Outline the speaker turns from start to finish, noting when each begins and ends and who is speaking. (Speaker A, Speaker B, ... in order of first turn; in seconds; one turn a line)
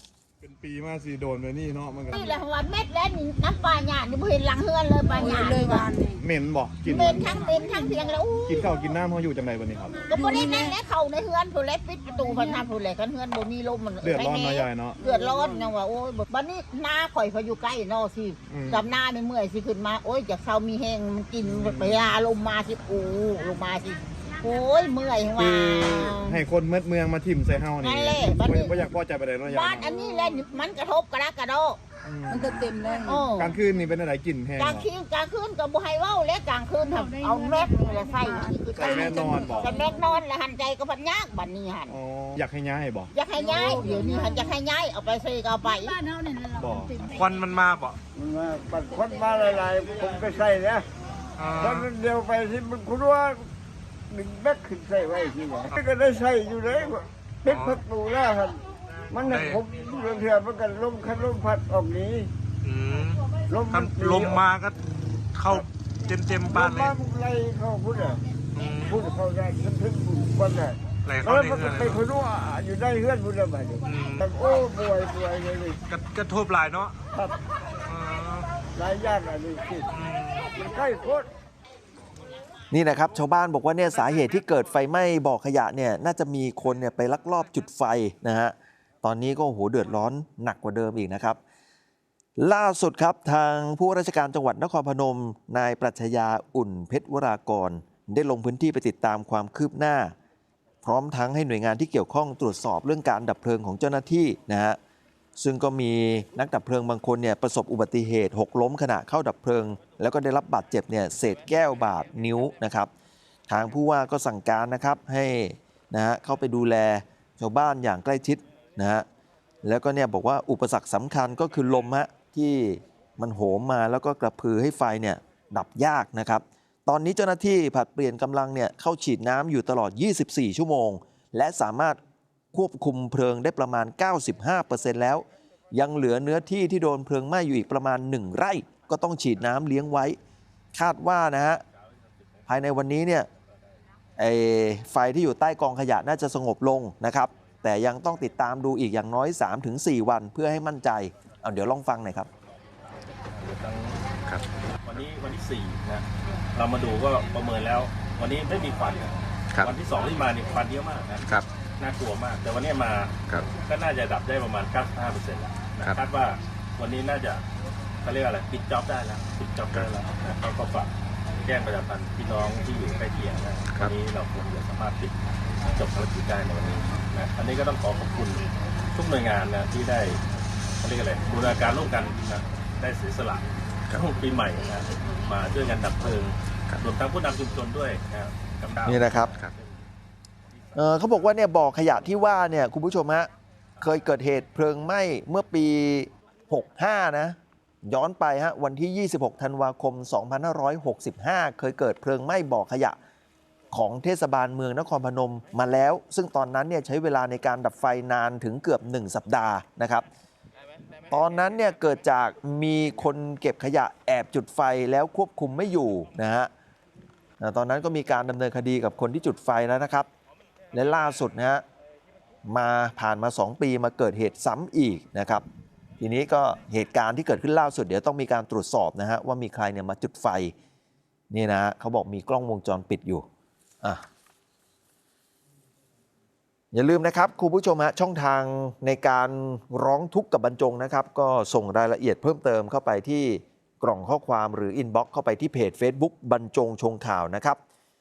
Speaker A: 0.4-2.3
Speaker B: 2.1-5.9
Speaker C: 5.1-6.2
Speaker A: 6.2-7.3
Speaker B: 6.9-8.7
Speaker A: 8.5-10.0
Speaker B: 10.1-26.4
Speaker C: 10.1-10.8
Speaker C: 12.3-12.6
Speaker A: 14.0-15.0
Speaker A: 18.5-18.8
Speaker A: 21.4-22.0
Speaker A: 25.4-29.9
Speaker B: 27.8-28.8
Speaker B: 29.5-31.8
Speaker A: 32.0-32.5
Speaker C: 32.3-33.2
Speaker B: 33.0-33.5
Speaker A: 33.3-34.9
Speaker B: 34.6-42.0
Speaker C: 37.2-39.6
Speaker A: 38.7-39.7
Speaker A: 41.9-43.1
Speaker B: 43.1-46.0
Speaker C: 43.4-44.5
Speaker C: 45.8-47.2
Speaker A: 46.5-47.1
Speaker D: 47.1-48.0
Speaker E: 48.1-50.9
Speaker D: 51.4-51.9
Speaker E: 51.6-53.5
Speaker E: 54.1-62.3
Speaker D: 57.5-57.8
Speaker D: 59.1-59.6
Speaker D: 62.6-64.8
Speaker E: 63.5-64.4
Speaker D: 65.3-66.9
Speaker E: 66.5-68.2
Speaker D: 68.5-69.0
Speaker E: 68.9-75.8
Speaker D: 71.0-72.0
Speaker D: 73.8-74.2
Speaker D: 75.9-77.0
Speaker D: 77.8-78.5
Speaker E: 78.7-79.9
Speaker D: 79.9-80.5
Speaker E: 80.5-81.3
Speaker F: 82.7-91.4
Speaker F: 92.4-100.1
Speaker F: 100.8-104.8
Speaker F: 105.4-112.9
Speaker F: 113.5-119.0
Speaker F: 119.6-132.0
Speaker F: 132.5-140.2
Speaker F: 140.7-141.6
Speaker F: 142.5-143.3
Speaker F: 144.2-152.3
Speaker G: 153.3-154.0
Speaker G: 154.8-167.4
Speaker G: 168.0-180.2
Speaker G: 180.8-189.8
Speaker F: 188.8-189.4
Speaker F: 190.7-202.9
Speaker F: 203.7-210.0
Speaker F: 211.1-216.5
Speaker F: 217.4-220.1
Speaker F: 220.7-221.6
Speaker F: 222.4-225.4
Speaker F: 226.0-230.5
Speaker F: 231.3-233.2
Speaker F: 236.7-247.6